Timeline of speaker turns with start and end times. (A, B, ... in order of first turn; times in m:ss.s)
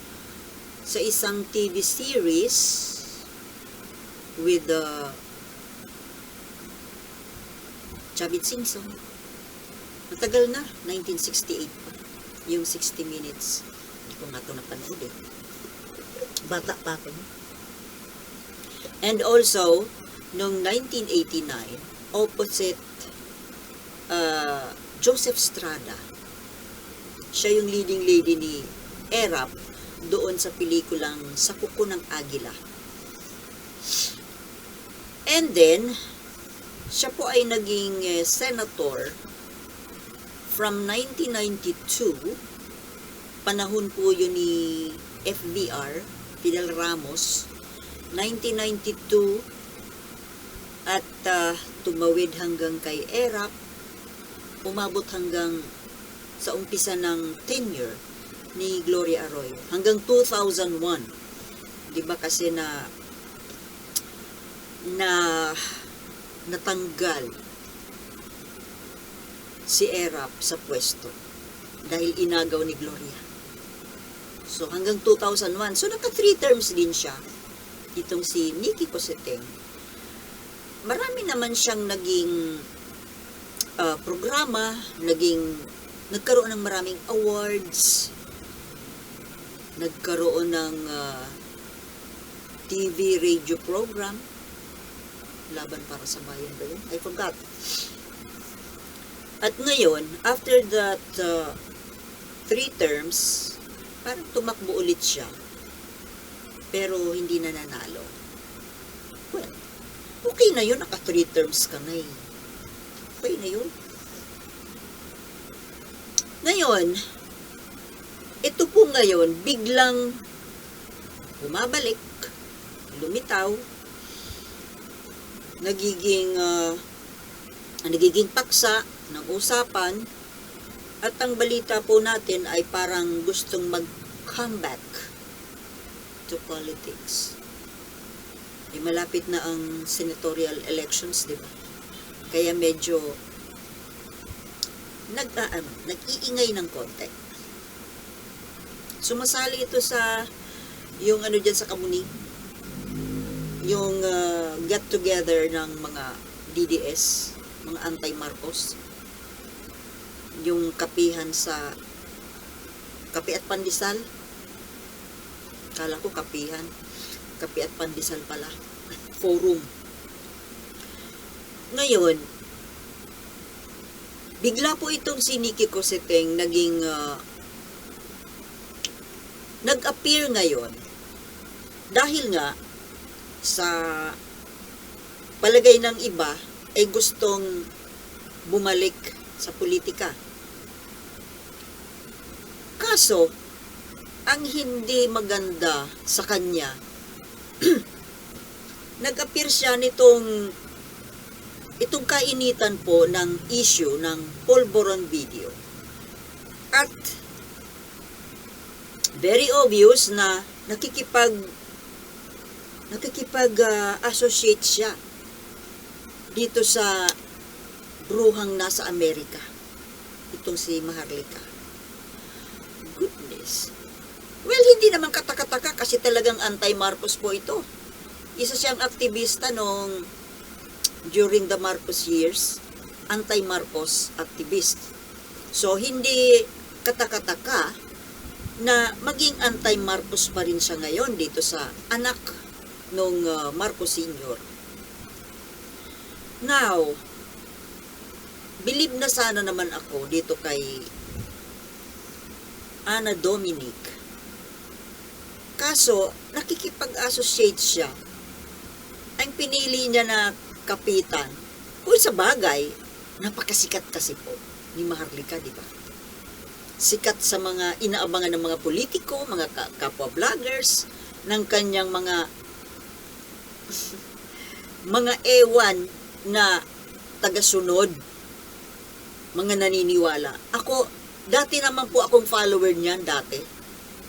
0:00.8-0:03.0 A
0:04.4-0:05.2 A
0:08.2-0:09.0 A
0:10.1-0:12.0 A
0:12.5-0:15.2 A
0:16.4-0:17.3 A
0:19.0-0:23.0 A
0:24.1-0:26.0 A
0:27.3-0:29.5 A
0:30.1-0:32.6 A
0:35.3-0:35.9 A
0:36.9-0:39.2 A
0:40.5-0:42.4 A
0:43.5-0:47.5 A
0:48.1-0:49.4 A
0:50.8-0:53.5 A
0:54.6-0:55.7 A
0:56.4-0:58.0 A
0:58.6-1:01.1 A
1:01.9-1:02.9 A
1:04.8-1:05.8 A
1:06.5-1:07.3 A
1:09.7-1:11.2 A
1:11.8-1:13.2 A
1:14.5-1:17.2 A
1:18.0-1:19.5 A
1:20.8-1:22.6 A
1:23.8-1:28.1 A
1:29.8-1:31.4 A
1:32.7-1:34.2 A
1:35.5-1:37.4 A
1:39.4-1:41.6 A
1:42.5-1:45.4 A
1:46.7-1:48.1 A
1:49.3-1:49.6 A
1:50.2-1:52.2 A
1:53.2-1:53.7 A
1:56.4-1:57.0 A
1:58.4-2:00.2 A
2:01.4-2:02.3 A
2:02.9-2:03.6 A
2:05.6-2:06.8 A
2:07.9-2:10.1 A
2:11.0-2:15.1 A
2:16.3-2:17.4 A
2:18.7-2:21.5 A
2:22.3-2:23.2 A
2:25.1-2:27.1 A
2:29.0-2:30.3 A
2:31.0-2:32.1 A
2:33.6-2:38.8 A
2:40.4-2:41.8 A
2:43.1-2:44.1 A
2:45.8-2:46.7 A
2:47.4-2:48.5 A
2:49.2-2:49.7 A
2:51.7-2:52.2 A
2:54.4-2:57.2 A
2:59.6-3:00.8 A
3:01.9-3:02.6 A
3:03.4-3:04.2 A
3:05.4-3:07.6 A
3:08.5-3:10.2 A
3:12.8-3:13.3 A
3:14.3-3:16.8 A
3:19.0-3:20.5 A
3:21.8-3:25.6 A
3:26.7-3:27.2 A
3:29.2-3:31.5 A
3:32.9-3:35.0 A
3:36.3-3:37.1 A
3:38.1-3:39.4 A
3:40.3-3:41.4 A
3:42.9-3:43.7 A
3:44.4-3:47.6 A
3:48.4-3:50.1 A
3:51.1-3:52.6 A
3:53.1-3:54.9 A
3:55.5-3:57.7 A
3:58.6-4:02.4 A
4:02.9-4:04.4 A
4:06.4-4:07.0 A
4:08.6-4:10.9 A
4:12.9-4:13.9 A
4:15.6-4:17.9 A
4:19.2-4:21.3 A
4:21.8-4:25.7 A
4:26.8-4:32.2 A
4:34.9-4:36.6 A
4:37.2-4:38.0 A
4:39.4-4:43.4 A